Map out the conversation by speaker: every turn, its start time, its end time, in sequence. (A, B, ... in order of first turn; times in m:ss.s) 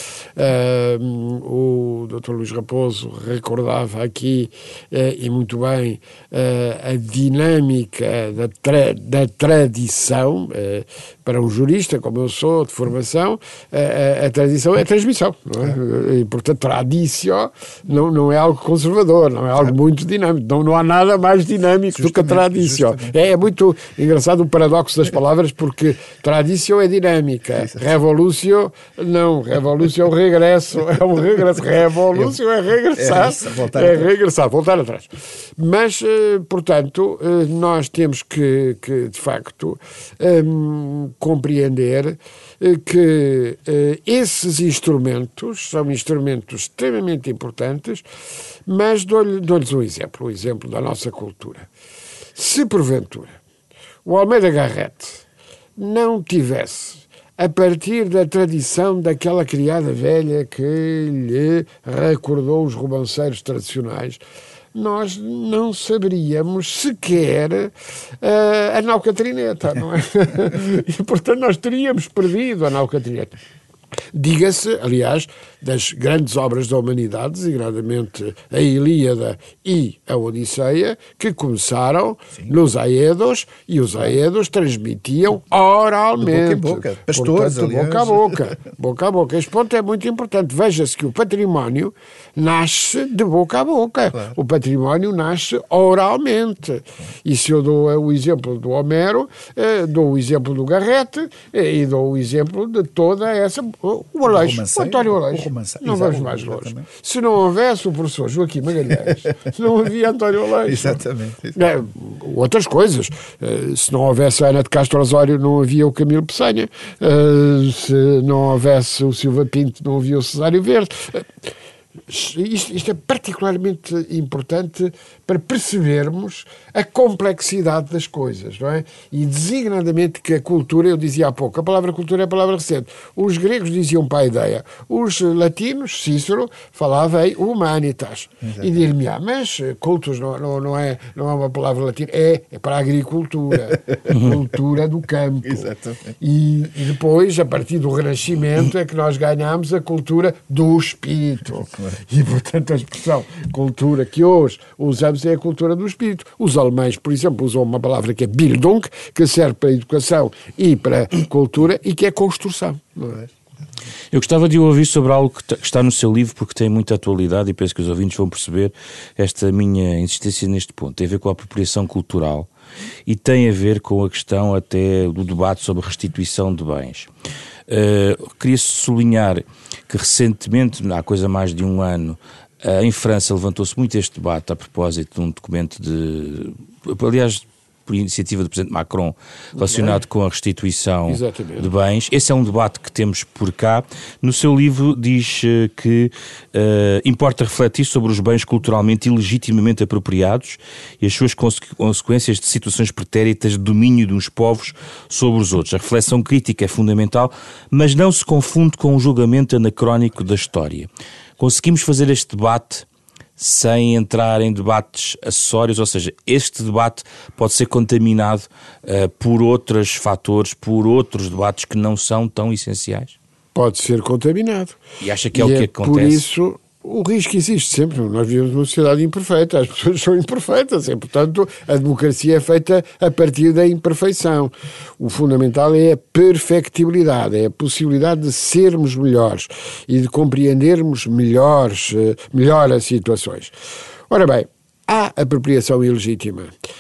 0:00.4-0:48.0 A
0:21.9-0:23.2 B
0:33.0-0:34.1 B
0:48.7-0:51.7 A
0:52.4-0:53.4 A
0:54.0-0:55.2 A
0:55.8-1:04.2 A
1:04.7-1:13.4 A
1:14.1-1:51.0 A
1:26.2-1:28.4 B
1:44.3-1:46.9 B
1:50.7-1:51.6 B
1:51.6-2:01.3 A
2:02.1-2:43.3 A
2:24.1-2:24.4 C
2:25.4-2:26.2 B
2:44.1-2:52.5 C
2:53.1-2:57.1 C
2:57.7-3:32.9 C
3:09.6-3:10.0 A
3:11.1-3:11.7 A
3:33.4-3:43.2 C
3:43.6-3:44.8 A
3:45.0-3:46.2 C
3:45.3-4:03.6 A
4:04.1-4:06.5 A